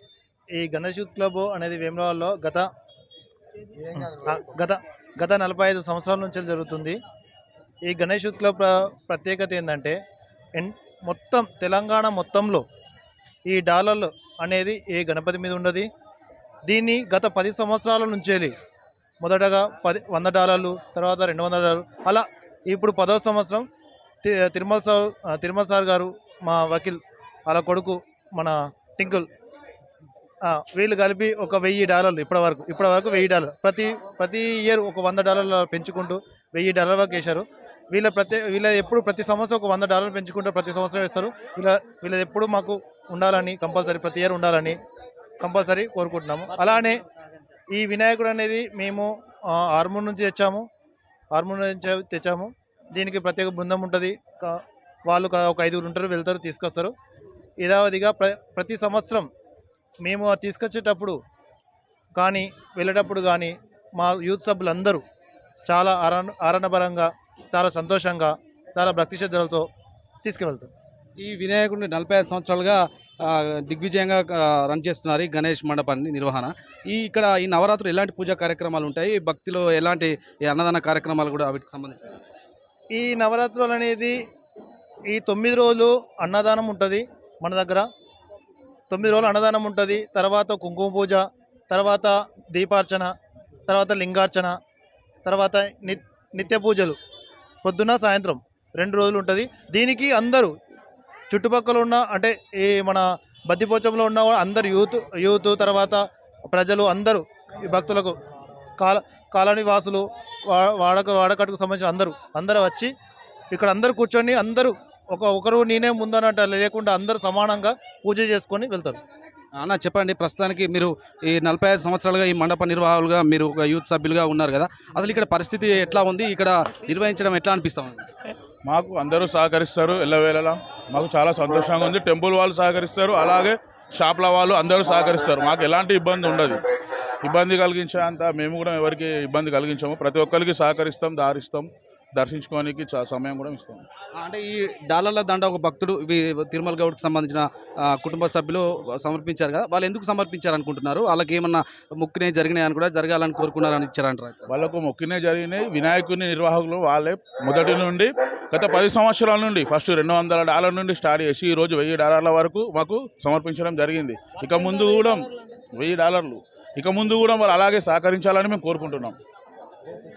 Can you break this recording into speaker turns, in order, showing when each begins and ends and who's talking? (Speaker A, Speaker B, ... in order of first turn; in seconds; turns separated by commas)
Speaker A: 0.6-2.7, Speaker A: 3.8-7.0, Speaker A: 7.9-10.0, Speaker A: 10.6-12.6, Speaker A: 13.5-15.9, Speaker A: 16.7-18.5, Speaker A: 19.2-23.6, Speaker A: 24.2-29.3, Speaker A: 30.4-44.8, Speaker A: 45.4-47.0, Speaker A: 47.7-50.6, Speaker A: 51.3-56.9, Speaker A: 57.6-59.3, Speaker A: 60.0-61.2, Speaker A: 62.1-65.0, Speaker A: 65.7-69.7, Speaker A: 70.2-70.7, Speaker B: 71.2-82.2, Speaker A: 82.9-84.2, Speaker A: 85.1-87.8, Speaker A: 88.9-93.1, Speaker A: 93.7-94.5, Speaker A: 95.2-97.0, Speaker A: 97.6-100.5, Speaker A: 101.3-108.2, Speaker A: 108.8-112.9, Speaker A: 113.5-119.0, Speaker B: 119.6-128.1, Speaker C: 128.6-136.6, Speaker C: 137.2-143.8, Speaker B: 144.2-154.5, Speaker C: 154.5-169.2